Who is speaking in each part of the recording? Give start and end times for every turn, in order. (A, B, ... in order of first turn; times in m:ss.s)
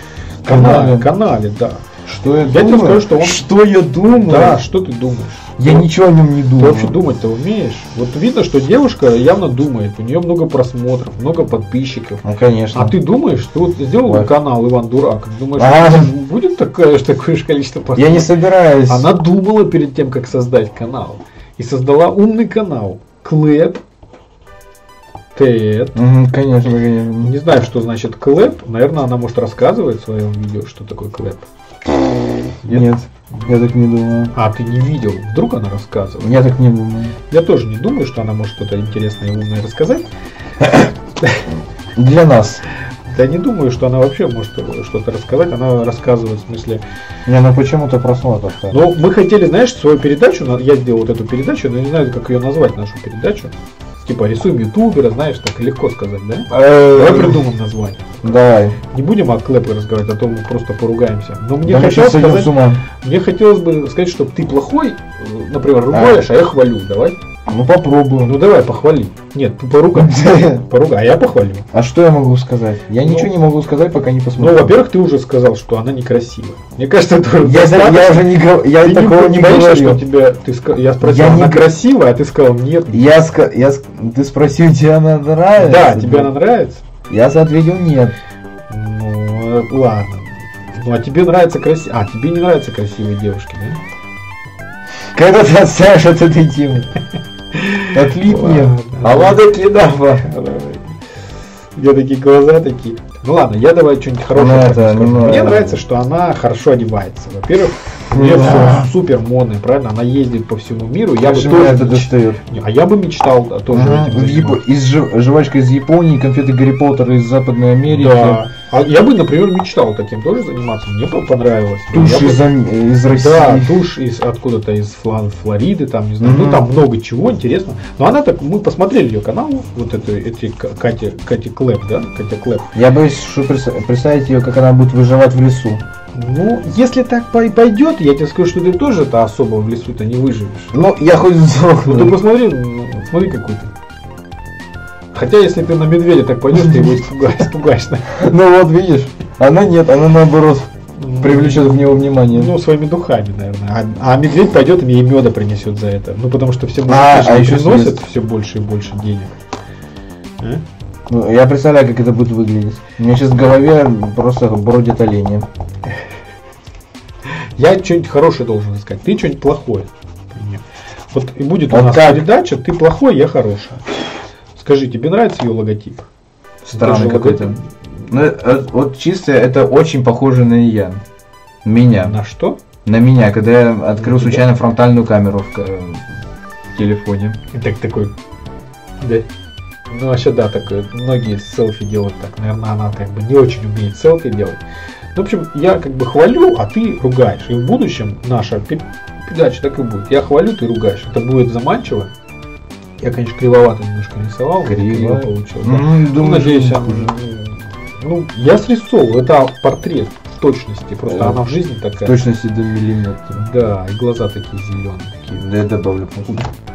0:00.4-0:01.9 A
0:00.5-0:01.1 B
0:02.0-0:04.6 B
0:02.4-0:03.4 A
0:04.1-0:05.9 A
0:05.6-0:07.0 B
0:06.6-0:12.2 A
0:12.2-0:12.9 B
0:12.7-0:18.3 A
0:14.0-0:14.3 B
0:15.6-0:16.1 B
0:18.0-0:19.1 B
0:18.9-0:23.8 A
0:25.4-0:26.0 A
0:25.9-0:27.4 B
0:27.2-0:31.4 A
0:32.7-0:34.3 B
0:34.3-0:36.5 A
0:36.2-0:37.2 B
0:37.3-0:40.1 A
0:40.7-0:41.5 A
0:42.0-0:42.6 B
0:43.1-0:46.8 A
0:47.2-0:48.8 B
0:48.7-0:58.1 A
0:56.5-0:57.4 B
0:58.2-0:58.8 B
0:58.9-1:07.2 A
1:01.6-1:02.8 B
1:05.9-1:06.3 B
1:07.5-1:08.4 B
1:08.2-1:11.6 A
1:09.9-1:10.6 B
1:11.7-1:14.8 B
1:13.0-1:13.3 A
1:14.4-1:18.3 A
1:17.4-1:20.0 B
1:18.8-1:23.1 A
1:21.0-1:21.7 B
1:22.9-1:26.3 B
1:25.6-1:26.8 A
1:27.1-1:28.2 B
1:28.7-1:33.8 A
1:35.1-1:36.9 B
1:37.5-1:39.4 A
1:37.9-1:40.2 B
1:40.2-1:41.0 A
1:41.8-1:54.6 A
1:44.4-1:45.8 B
1:48.1-1:48.9 B
1:51.2-1:52.4 B
1:53.7-1:58.4 B
1:57.9-2:02.4 A
2:01.9-2:03.8 B
2:03.0-2:12.7 A
2:06.2-2:06.7 B
2:12.7-2:15.8 B
2:16.1-2:20.7 A
2:20.7-2:22.2 B
2:21.8-2:23.7 A
2:25.1-2:28.2 A
2:26.6-2:26.9 B
2:28.1-2:32.5 B
2:31.0-2:39.3 A
2:36.9-2:38.0 B
2:41.1-2:45.5 B
2:47.6-2:53.9 A
2:51.7-2:52.3 B
2:54.6-2:56.0 A
2:56.6-3:01.0 B
2:56.7-2:57.7 A
3:01.6-3:02.2 B
3:02.0-3:02.6 A
3:02.8-3:06.0 B
3:04.0-3:04.4 A
3:06.7-3:07.4 B
3:07.5-3:08.1 A
3:09.0-3:09.2 A
3:09.9-3:14.6 A
3:15.1-3:22.1 A
3:23.0-3:32.2 A
3:24.6-3:27.2 B
3:31.0-3:31.4 B
3:32.0-3:33.5 B
3:33.4-3:35.4 A
3:35.4-3:36.5 B